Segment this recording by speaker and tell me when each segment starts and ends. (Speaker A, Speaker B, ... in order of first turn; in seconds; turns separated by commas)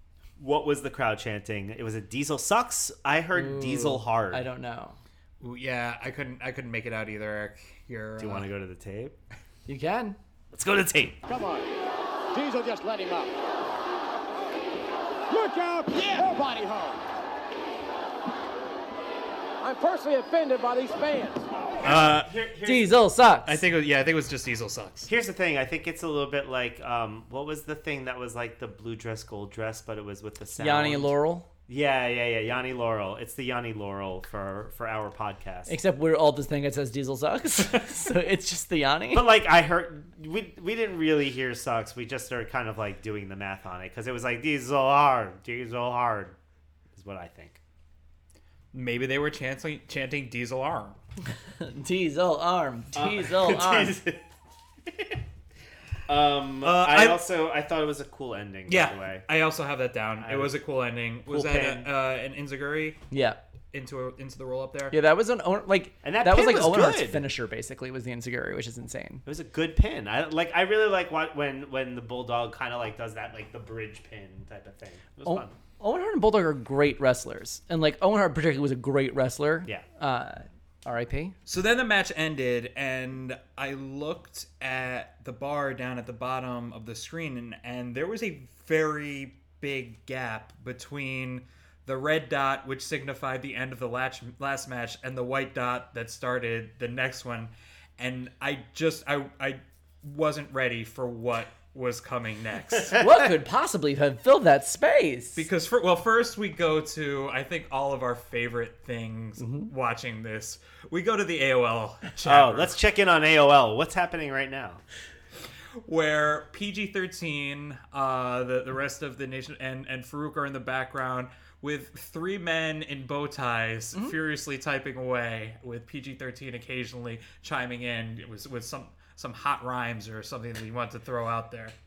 Speaker A: 0.4-4.5, Speaker B: 3.3-5.0, Speaker C: 5.4-8.5, Speaker A: 8.2-9.2, Speaker B: 9.7-10.2, Speaker A: 10.5-11.2, Speaker D: 11.3-11.7, Speaker D: 12.3-13.3, Speaker D: 15.3-17.0, Speaker D: 19.6-21.5, Speaker A: 21.8-22.9, Speaker C: 21.8-22.2, Speaker B: 22.6-23.6, Speaker C: 23.5-25.1, Speaker A: 25.1-31.1, Speaker B: 30.6-31.5, Speaker A: 31.7-35.8, Speaker B: 35.7-39.3, Speaker A: 39.1-46.4, Speaker A: 46.9-47.6, Speaker C: 48.7-51.0, Speaker B: 51.6-54.0, Speaker A: 53.0-54.3, Speaker A: 54.9-55.2, Speaker A: 56.1-59.2, Speaker C: 56.6-57.2, Speaker C: 58.7-63.0, Speaker A: 60.2-60.6, Speaker A: 61.3-61.9, Speaker B: 63.1-63.4, Speaker C: 63.7-65.0, Speaker B: 64.9-69.2, Speaker A: 66.0-67.2, Speaker A: 69.2-75.5, Speaker B: 75.3-81.4, Speaker C: 81.5-103.0, Speaker B: 103.0-105.5, Speaker C: 105.4-112.8, Speaker B: 109.4-109.7, Speaker A: 112.2-114.8, Speaker C: 115.8-131.8